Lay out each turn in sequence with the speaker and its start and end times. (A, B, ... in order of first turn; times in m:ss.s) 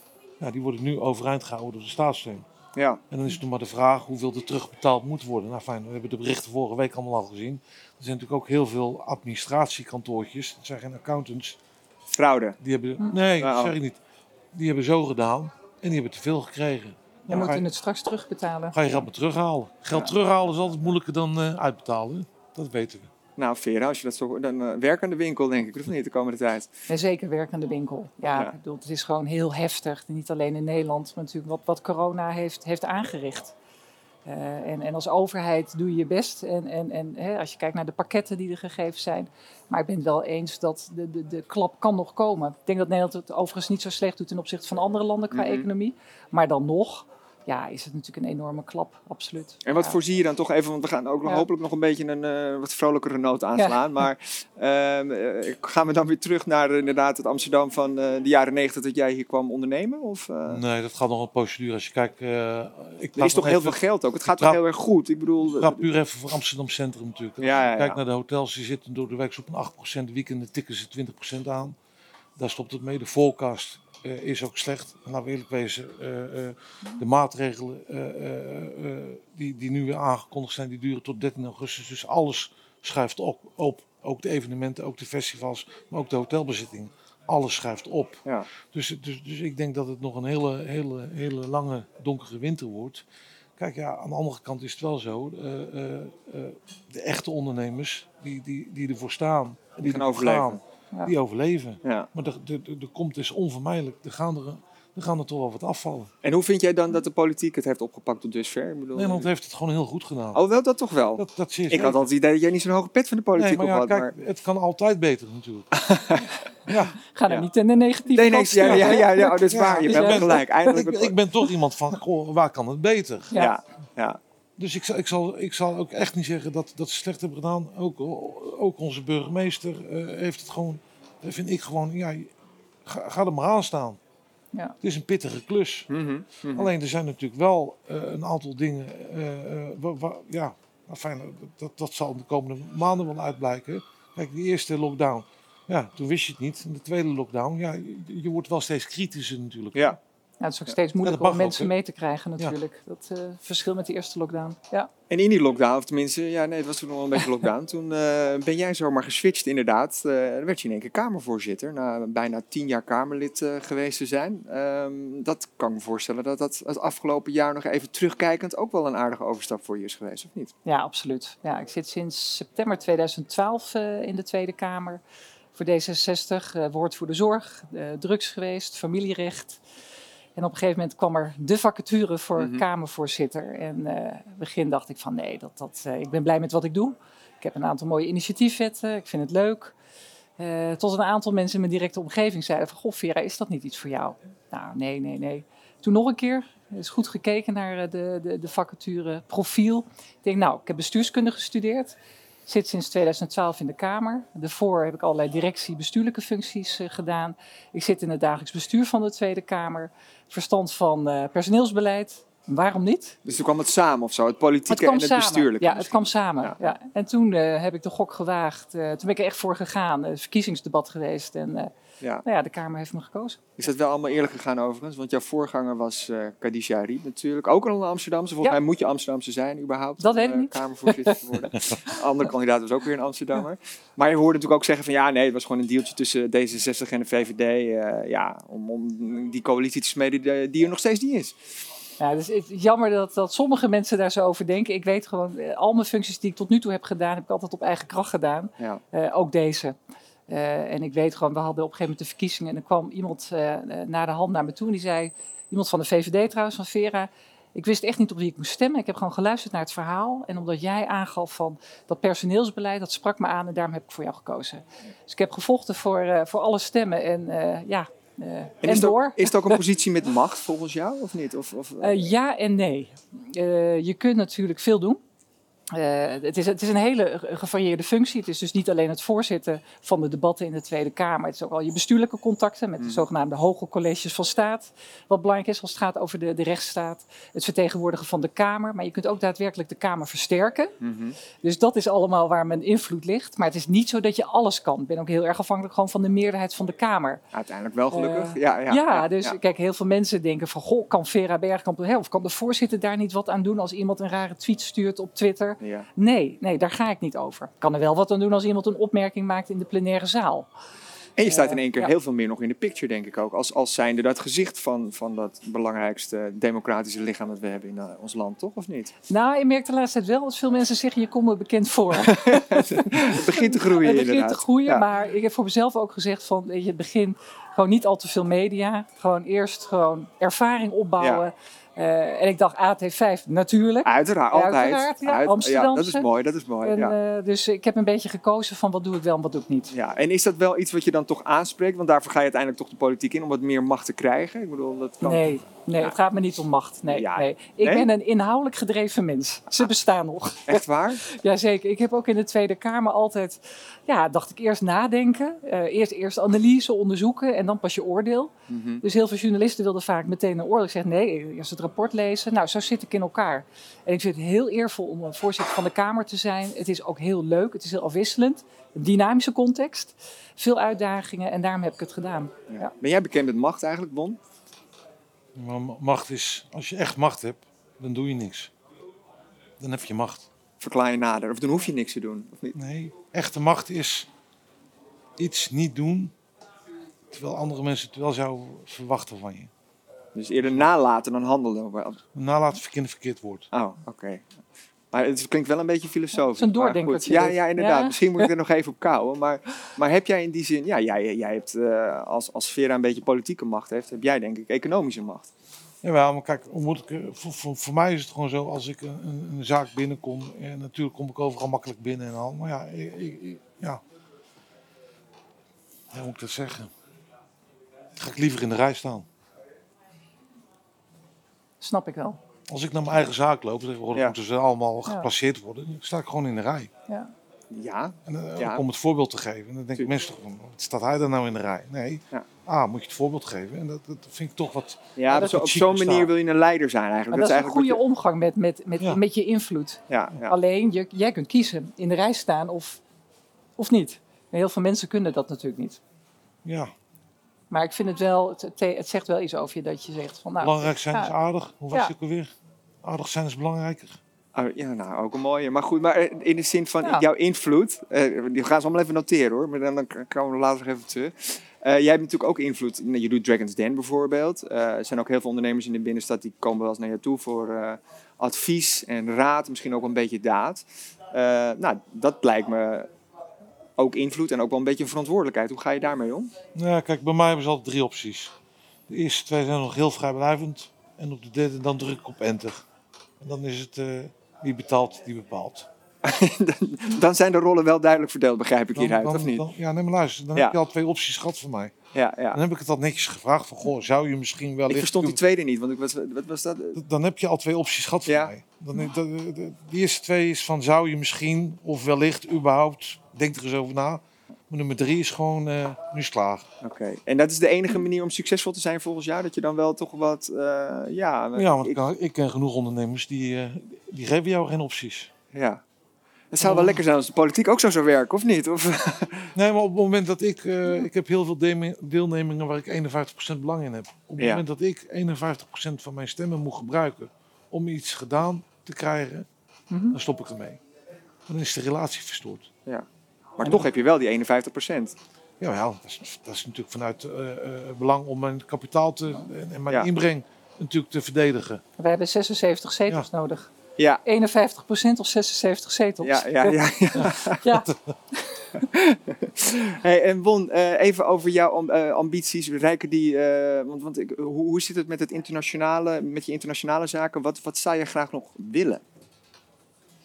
0:00.4-0:02.5 A
0:02.8-0:03.0 B
0:03.1-0:11.6 A
0:12.1-0:12.6 B
0:12.6-0:14.0 A
0:13.4-0:13.8 B
0:14.5-0:17.7 A
0:17.3-0:18.8 C
0:18.7-0:23.1 A
0:23.4-0:26.7 B
0:26.9-0:33.6 C
0:34.3-0:50.0 C
0:45.3-0:45.7 B
0:49.6-1:00.6 B
0:53.6-0:54.0 C
1:00.5-1:04.6 A
1:03.2-1:05.9 B
1:05.6-1:11.8 A
1:07.4-1:08.0 B
1:12.4-1:33.0 A
1:33.6-1:46.1 A
1:39.8-1:40.6 B
1:41.8-1:42.1 B
1:46.2-1:49.3 B
1:49.0-1:50.4 A
1:50.4-1:54.1 B
1:51.2-1:52.1 A
1:53.4-1:55.8 A
1:55.7-1:56.8 B
1:56.7-1:57.0 A
1:57.1-2:00.5 C
1:58.1-2:01.2 B
1:58.6-2:03.3 A
2:03.3-2:04.2 B
2:04.6-2:12.3 A
2:12.8-2:14.0 A
2:14.8-2:15.9 A
2:15.9-2:16.7 B
2:16.5-2:30.0 A
2:30.4-2:34.9 C
2:31.0-2:31.7 A
2:35.1-2:50.5 B
2:50.7-2:55.0 C
2:55.5-2:59.6 C
3:00.4-3:09.8 C
3:02.4-3:02.6 B
3:10.4-3:22.0 C
3:22.5-3:33.2 C
3:33.2-3:36.6 B
3:34.7-3:41.7 C
3:42.2-3:43.4 C
3:43.6-4:01.5 B
3:50.0-3:52.0 C
4:02.0-4:09.8 C
4:10.3-4:29.6 C
4:28.6-4:32.1 B
4:31.8-4:35.0 C
4:35.7-4:50.7 C
4:42.8-4:43.1 B
4:50.8-4:51.2 B
4:51.4-4:57.2 C
4:57.3-4:59.4 B
4:57.9-5:10.5 C
5:05.6-5:05.9 B
5:11.2-5:19.0 B
5:11.2-5:11.9 C
5:19.1-5:36.1 C
5:22.0-5:24.8 B
5:31.0-5:31.2 B
5:33.8-5:36.9 B
5:36.6-5:39.7 C
5:39.7-5:46.0 B
5:45.0-6:12.7 C
5:46.9-5:47.9 B
5:50.5-5:51.0 B
5:58.5-5:58.8 B
6:12.5-6:14.2 B
6:15.4-6:18.5 A
6:19.6-6:20.3 A
6:20.6-6:22.6 B
6:22.5-6:24.1 A
6:25.2-6:26.1 A
6:27.1-6:29.5 A
6:30.2-6:32.0 B
6:32.2-6:33.5 A
6:33.5-6:34.3 B
6:34.9-6:45.3 B
6:36.3-6:38.3 C
6:45.8-6:53.8 A
6:55.9-6:56.7 A
6:58.0-6:59.1 A
7:01.6-7:02.2 C
7:02.5-7:06.7 A
7:07.5-7:08.6 B
7:08.1-7:16.1 A
7:15.0-7:17.8 B
7:17.1-7:22.8 C
7:19.9-7:20.4 B
7:23.6-7:25.8 C
7:26.4-7:26.7 A
7:27.5-7:31.2 C
7:30.4-7:34.0 A
7:34.3-7:52.9 B
7:53.8-7:56.3 B
7:56.6-7:58.4 A
7:58.9-8:02.7 A
8:03.2-8:05.7 A
8:06.0-8:09.5 B
8:08.8-8:11.8 A
8:11.9-8:12.4 B
8:12.3-8:15.2 A
8:14.7-8:16.8 B
8:16.8-8:26.5 A
8:18.1-8:18.3 B
8:26.6-8:31.8 B
8:31.4-8:35.1 A
8:35.3-8:35.6 B
8:36.3-8:39.3 B
8:36.4-8:36.8 A
8:39.3-8:49.3 A
8:44.2-8:44.4 B
8:49.7-8:50.0 C
8:49.9-8:50.6 A
8:51.3-8:52.5 A
8:53.4-8:55.0 B
8:55.4-9:01.6 A
9:01.8-9:03.5 C
9:03.8-9:04.0 B
9:04.0-9:08.7 C
9:06.0-9:07.4 B
9:07.0-9:07.9 A
9:08.6-9:18.8 B